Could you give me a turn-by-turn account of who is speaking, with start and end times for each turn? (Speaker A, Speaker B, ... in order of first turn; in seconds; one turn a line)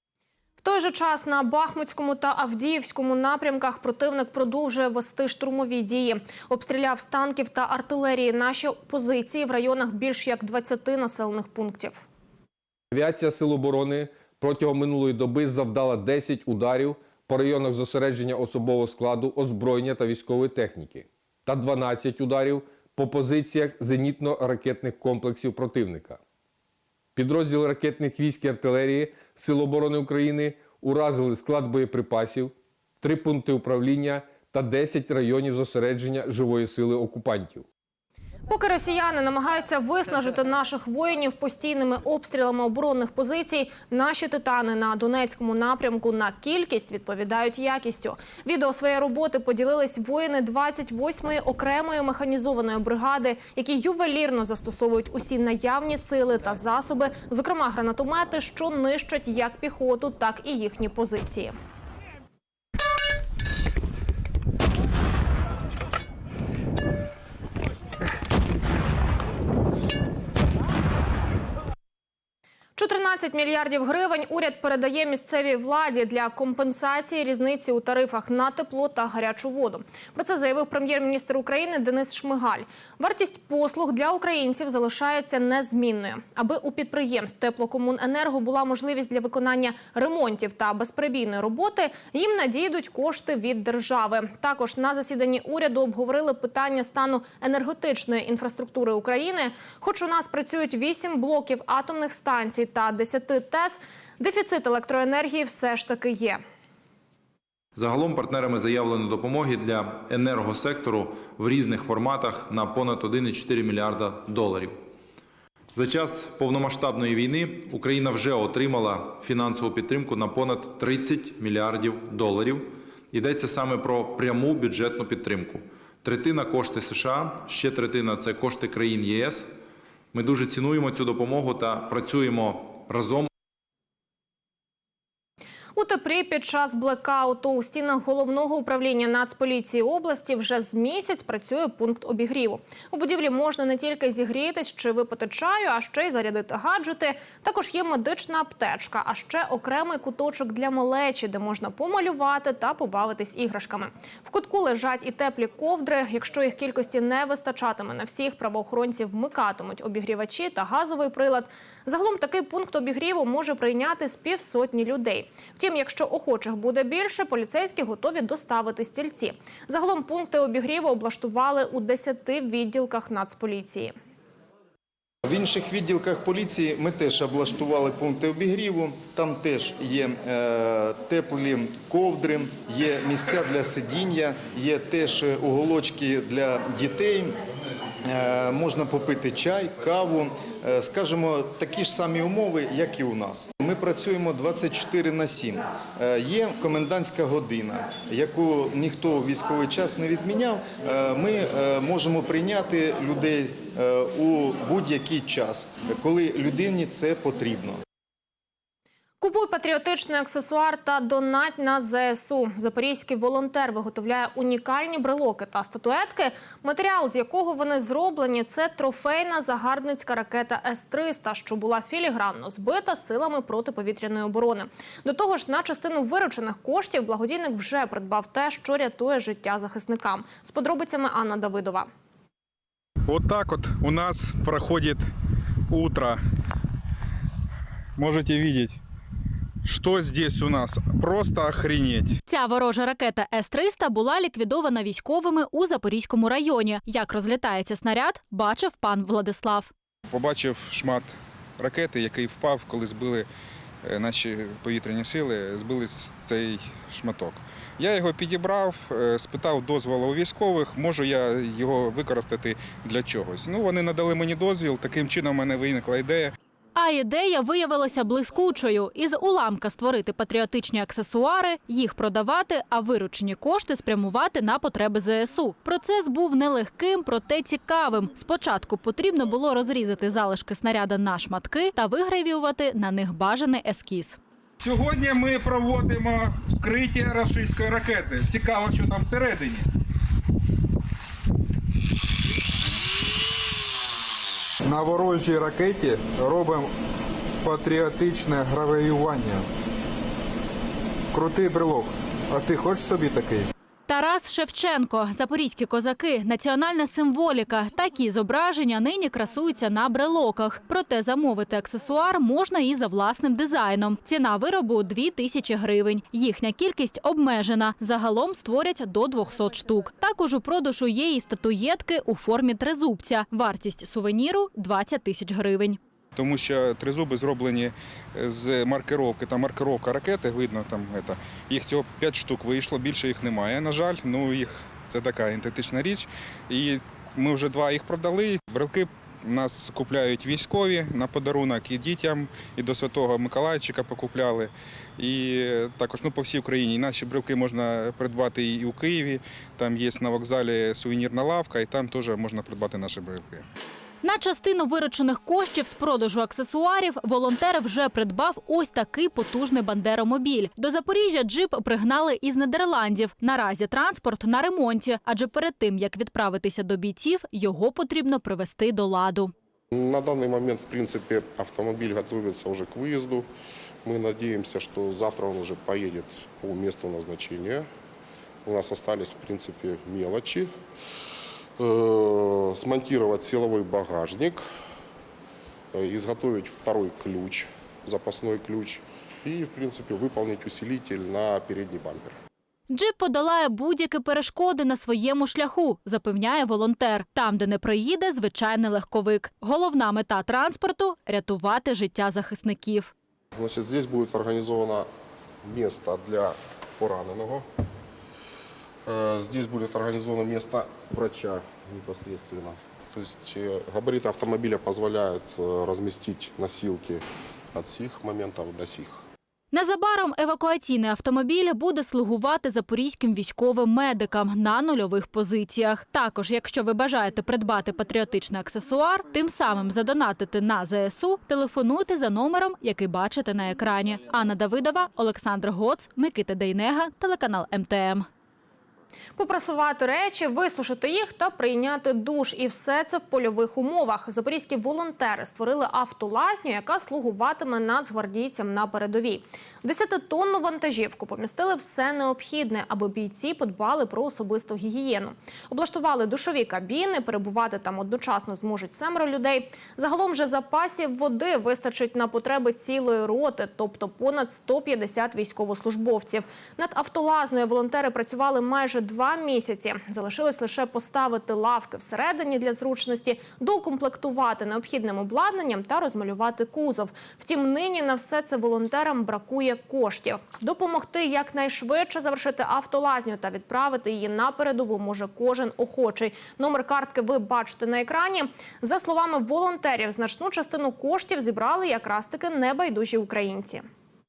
Speaker A: 0.6-12.1
Speaker B: 12.9-26.2
Speaker B: 27.2-37.6
Speaker A: 38.5-61.6
Speaker A: 72.8-106.4
Speaker C: 107.8-114.8
Speaker C: 115.7-129.5
Speaker C: 130.1-133.3
Speaker A: 135.8-173.9
Speaker D: 175.2-187.3
Speaker D: 188.0-207.8
Speaker A: 209.2-231.9
Speaker E: 233.1-235.1
Speaker E: 235.7-236.2
Speaker E: 237.9-238.8
Speaker E: 239.6-242.2
Speaker F: 242.3-249.7
Speaker E: 250.1-253.3
Speaker E: 253.8-266.3
Speaker F: 266.8-284.2
Speaker E: 284.6-289.7
Speaker E: 294.6-296.7
Speaker E: 297.4-299.4
Speaker E: 301.1-303.5
Speaker F: 303.9-325.8
Speaker E: 326.1-353.4
Speaker F: 354.0-369.3
Speaker G: 369.7-373.3
Speaker G: 373.8-377.7
Speaker G: 378.4-380.5
Speaker G: 381.6-384.4
Speaker G: 385.7-392.1
Speaker F: 392.7-402.9
Speaker G: 403.3-404.9
Speaker G: 405.4-407.4
Speaker G: 408.9-419.0
Speaker F: 419.5-438.1
Speaker A: 439.2-493.6